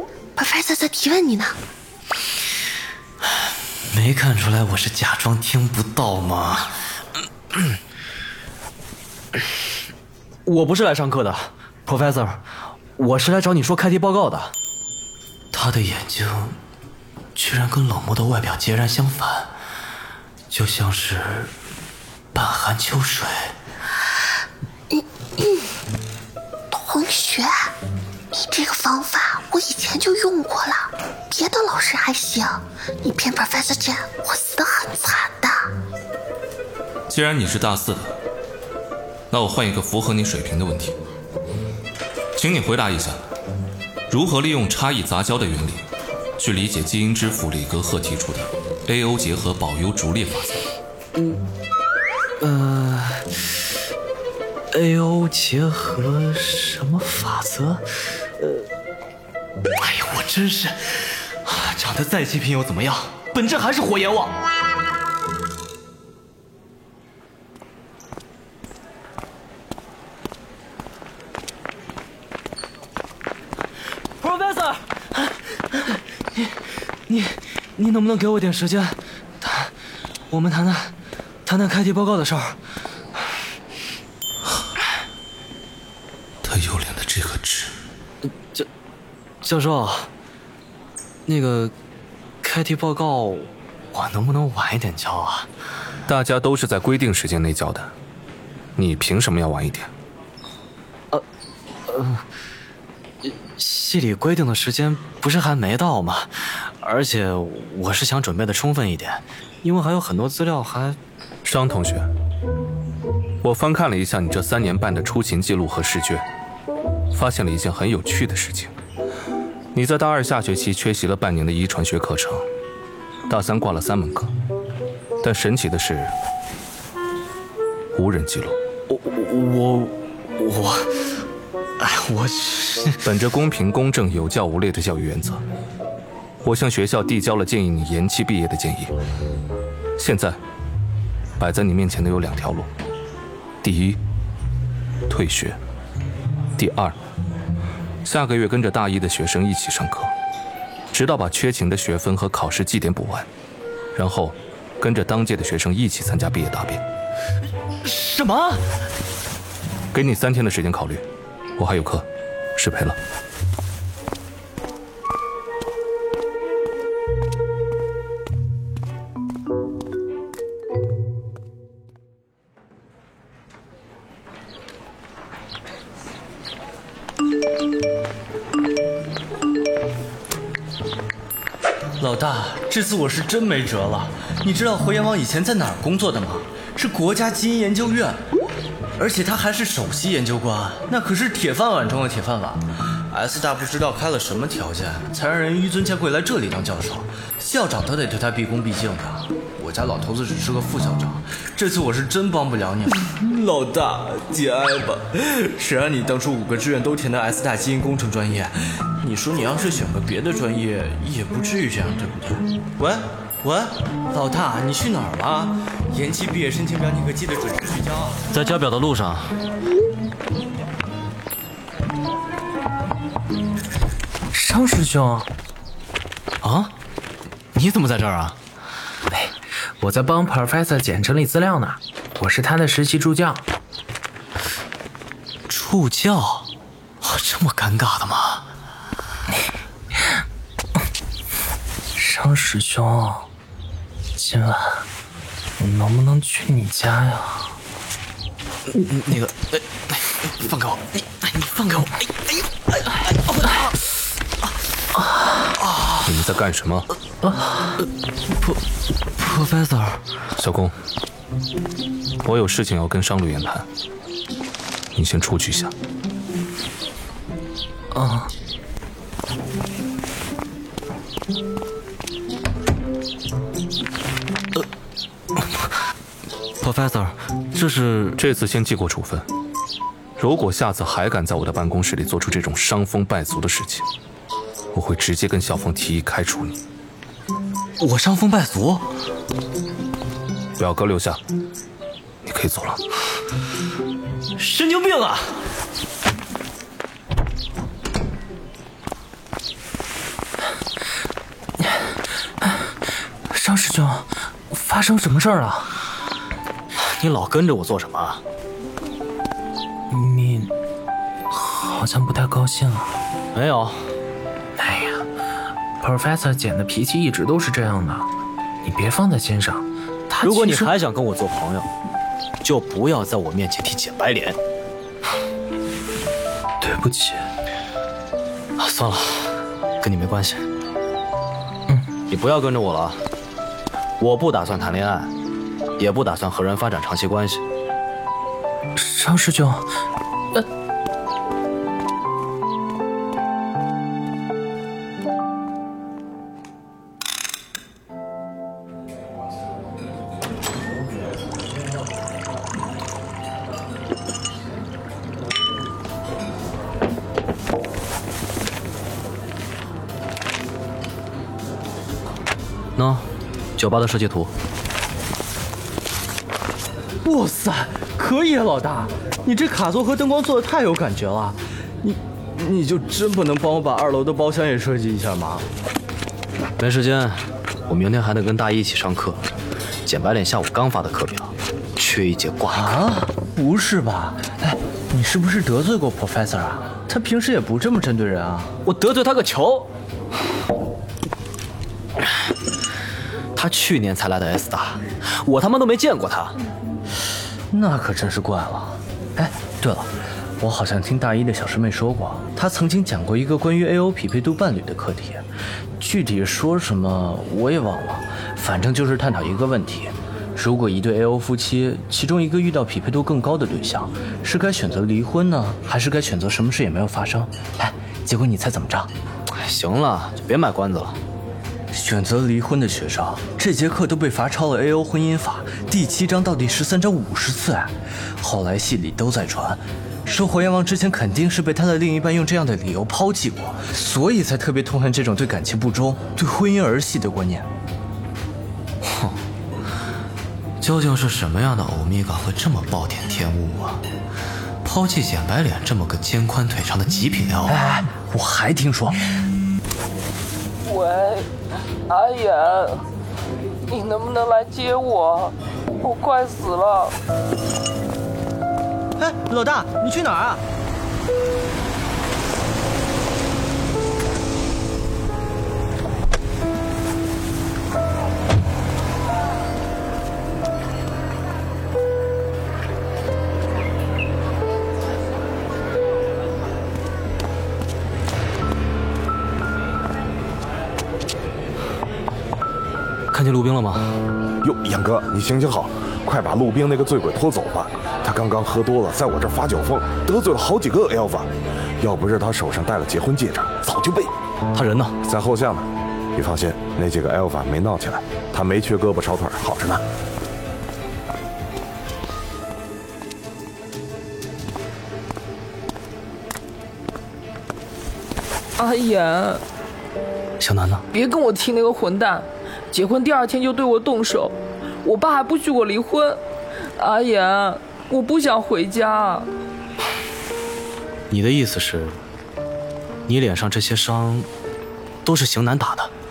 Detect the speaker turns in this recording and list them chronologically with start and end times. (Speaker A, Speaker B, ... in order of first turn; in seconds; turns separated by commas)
Speaker A: 0.3-1.6, Speaker B: 3.9-6.8, Speaker B: 10.4-12.4, Speaker B: 13.0-14.5, Speaker B: 15.5-16.6, Speaker B: 17.3-19.5, Speaker B: 20.5-21.5, Speaker B: 22.3-23.5, Speaker A: 24.9-25.7, Speaker A: 26.7-27.7, Speaker A: 28.3-35.7, Speaker C: 37.1-38.1, Speaker C: 39.3-41.0, Speaker C: 42.4-43.2, Speaker C: 44.1-45.8, Speaker C: 46.4-50.6, Speaker B: 52.4-53.4, Speaker B: 54.7-57.9, Speaker B: 58.4-58.6, Speaker B: 59.7-64.3, Speaker B: 74.2-79.7, Speaker B: 80.3-80.9, Speaker B: 81.5-82.6, Speaker C: 86.4-87.7, Speaker B: 88.2-88.7, Speaker B: 89.4-90.1, Speaker B: 91.3-91.7, Speaker B: 92.4-95.5, Speaker C: 96.1-97.9, Speaker C: 98.8-99.9, Speaker B: 101.9-102.2, Speaker B: 103.2-111.0, Speaker C: 111.4-112.1, Speaker C: 113.4-116.2, Speaker C: 117.1-118.7, Speaker C: 119.7-122.5, Speaker C: 123.3-124.3, Speaker C: 125.2-126.1, Speaker C: 127.9-128.6, Speaker B: 128.9-131.0, Speaker B: 131.8-133.0, Speaker C: 133.0-135.4, Speaker C: 136.4-138.9, Speaker C: 140.0-140.4, Speaker C: 141.4-142.7, Speaker C: 143.6-144.0, Speaker C: 145.1-145.6, Speaker C: 146.6-146.9, Speaker C: 148.0-150.1, Speaker C: 150.9-153.3, Speaker C: 153.9-156.8, Speaker B: 157.8-158.6, Speaker C: 159.9-161.0, Speaker C: 161.6-162.1, Speaker C: 162.6-163.0, Speaker D: 182.0-188.2, Speaker D: 189.0-218.2, Speaker B: 218.3-219.3, Speaker E: 224.3-225.3, Speaker B: 226.4-226.7, Speaker B: 227.5-228.4, Speaker E: 229.1-233.4, Speaker B: 235.5-236.5, Speaker B: 237.0-238.4, Speaker E: 241.9-243.3, Speaker E: 244.2-244.8, Speaker E: 245.6-247.5, Speaker B: 248.7-253.7, Speaker B: 255.6-256.0, Speaker C: 256.0-256.9, Speaker B: 259.2-260.0, Speaker C: 260.4-260.7, Speaker C: 262.2-263.6, Speaker C: 264.9-265.7, Speaker E: 267.9-268.3, Speaker B: 275.4-275.7, Speaker B: 276.6-278.2, Speaker C: 278.2-279.2, Speaker C: 280.2-283.9, Speaker C: 284.7-286.6, Speaker B: 287.8-288.9, Speaker C: 290.6-291.2, Speaker C: 292.2-292.8, Speaker B: 294.4-295.3, Speaker E: 301.6-305.7, Speaker B: 306.8-308.2, Speaker E: 309.9-310.5, Speaker E: 311.3-312.9, Speaker B: 313.3-313.9, Speaker E: 314.6-315.0, Speaker E: 315.8-318.1, Speaker E: 318.6-320.7, Speaker B: 320.2-321.7, Speaker B: 322.4-324.4, Speaker E: 326.6-327.3, Speaker B: 328.6-330.4, Speaker B: 332.1-333.0, Speaker B: 334.0-335.1, Speaker B: 335.8-337.4, Speaker E: 338.8-339.7, Speaker B: 362.8-364.3, Speaker D: 367.0-375.4, Speaker B: 376.6-379.3, Speaker B: 379.9-382.8, Speaker D: 382.5-388.5, Speaker B: 388.6-389.7, Speaker B: 393.4-396.4, Speaker D: 397.5-399.9, Speaker D: 400.4-405.2, Speaker D: 405.8-418.9, Speaker B: 419.3-421.0, Speaker D: 421.7-437.5, Speaker B: 438.8-439.2, Speaker B: 440.6-443.8, Speaker B: 444.6-447.6, Speaker D: 447.5-449.0, Speaker F: 450.6-451.3, Speaker F: 451.9-452.8, Speaker F: 453.7-456.9, Speaker D: 459.0-460.4, Speaker B: 483.1-483.9, Speaker G: 484.4-494.1, Speaker B: 494.5-495.0, Speaker G: 495.0-499.8, Speaker F: 508.6-509.4, Speaker B: 510.4-510.8, Speaker F: 510.9-516.2, Speaker F: 516.8-519.3, Speaker B: 521.1-522.0, Speaker B: 523.1-524.3, Speaker B: 525.0-525.9